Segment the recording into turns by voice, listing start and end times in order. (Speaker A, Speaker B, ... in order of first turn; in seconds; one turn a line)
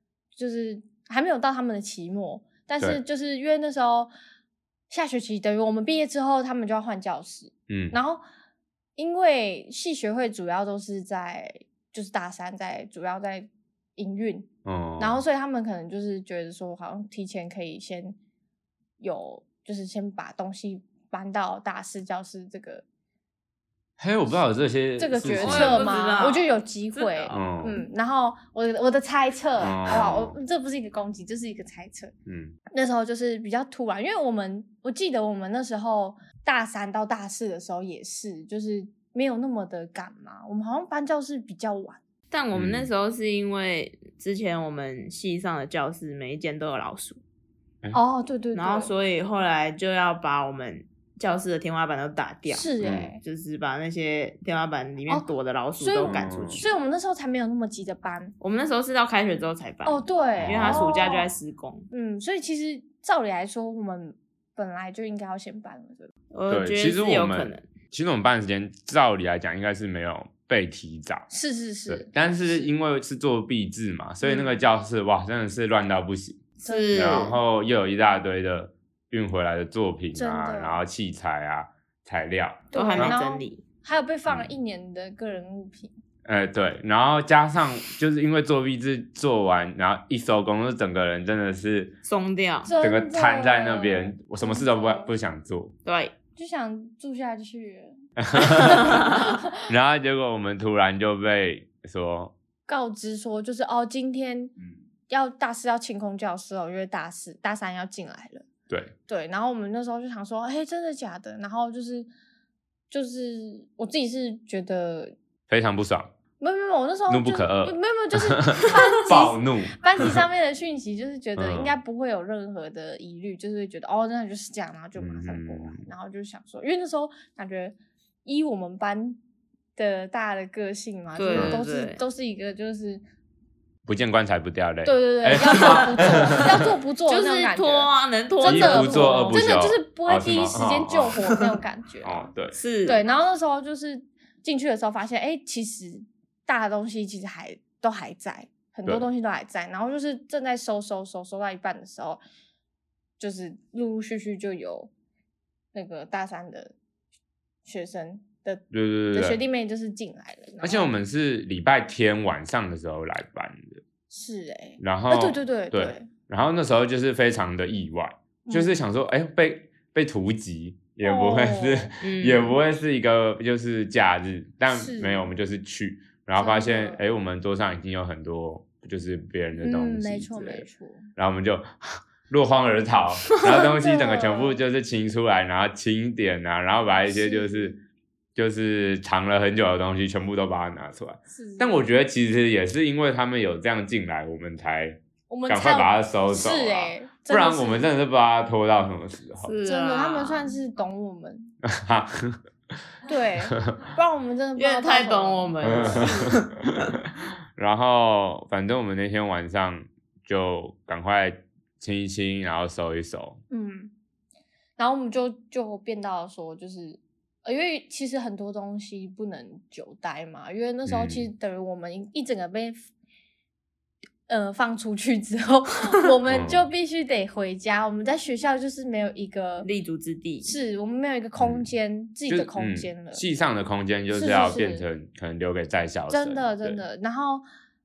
Speaker A: 0.3-4.1
Speaker A: 4.9-8.2
Speaker B: 7.7-7.9
Speaker A: 9.0-14.5
Speaker B: 14.6-15.2
Speaker A: 15.0-18.2
Speaker A: 19.0-22.8
Speaker B: 24.0-26.0
Speaker A: 25.0-32.1
Speaker C: 25.2-27.3
Speaker B: 27.3-27.8
Speaker B: 29.6-30.4
Speaker B: 32.2-32.5
Speaker A: 32.7-42.0
Speaker C: 42.3-47.2
Speaker B: 42.5-42.9
Speaker A: 47.9-48.9
Speaker C: 48.5-56.7
Speaker A: 52.5-53.2
Speaker B: 52.8-53.1
Speaker A: 55.8-58.3
Speaker B: 56.0-56.6
Speaker C: 58.4-61.9
Speaker A: 59.8-61.3
Speaker B: 60.4-61.1
Speaker A: 61.9-66.1
Speaker C: 66.3-67.6
Speaker B: 66.5-71.3
Speaker A: 71.3-72.7
Speaker B: 71.9-83.2
Speaker A: 74.2-74.6
Speaker A: 76.6-77.3
Speaker C: 76.6-77.3
Speaker A: 80.1-80.8
Speaker C: 82.7-83.6
Speaker A: 82.7-85.9
Speaker B: 84.3-84.5
Speaker B: 86.2-92.0
Speaker C: 92.0-92.7
Speaker A: 92.6-95.1
Speaker B: 92.8-95.7
Speaker C: 95.8-96.1
Speaker A: 96.3-99.5
Speaker B: 98.2-102.3
Speaker A: 102.7-104.5
Speaker A: 105.1-108.5
Speaker A: 109.1-112.1
Speaker A: 112.9-115.1
Speaker B: 115.5-116.1
Speaker A: 116.4-129.2
Speaker B: 117.1-120.2
Speaker B: 121.4-121.7
Speaker B: 125.0-125.9
Speaker A: 129.8-133.0
Speaker C: 131.2-132.0
Speaker B: 131.3-131.6
Speaker B: 133.8-136.6
Speaker A: 134.8-142.3
Speaker C: 135.5-135.9
Speaker C: 137.1-139.4
Speaker B: 138.4-141.2
Speaker B: 142.0-142.5
Speaker C: 142.5-143.0
Speaker A: 142.8-152.2
Speaker A: 153.2-154.9
Speaker A: 155.7-156.7
Speaker A: 157.6-160.9
Speaker B: 158.7-159.4
Speaker B: 160.6-163.8
Speaker A: 164.1-166.1
Speaker B: 164.8-187.8
Speaker A: 168.4-168.8
Speaker A: 171.0-171.9
Speaker C: 172.0-172.6
Speaker A: 174.7-175.3
Speaker A: 176.4-177.0
Speaker A: 179.6-181.1
Speaker A: 183.3-184.6
Speaker A: 187.0-187.8
Speaker B: 188.3-199.6
Speaker A: 191.3-191.8
Speaker A: 195.3-197.9
Speaker C: 199.4-200.6
Speaker A: 199.6-201.5
Speaker B: 201.6-202.4
Speaker A: 203.1-206.4
Speaker C: 204.6-206.8
Speaker B: 205.6-206.9
Speaker B: 207.6-213.4
Speaker A: 213.5-213.9
Speaker A: 214.8-222.8
Speaker B: 220.8-221.3
Speaker A: 224.3-229.7
Speaker B: 226.3-226.7
Speaker C: 229.6-230.5
Speaker A: 230.4-233.2
Speaker B: 231.4-231.7
Speaker B: 232.3-236.8
Speaker A: 234.1-234.8
Speaker A: 236.1-237.4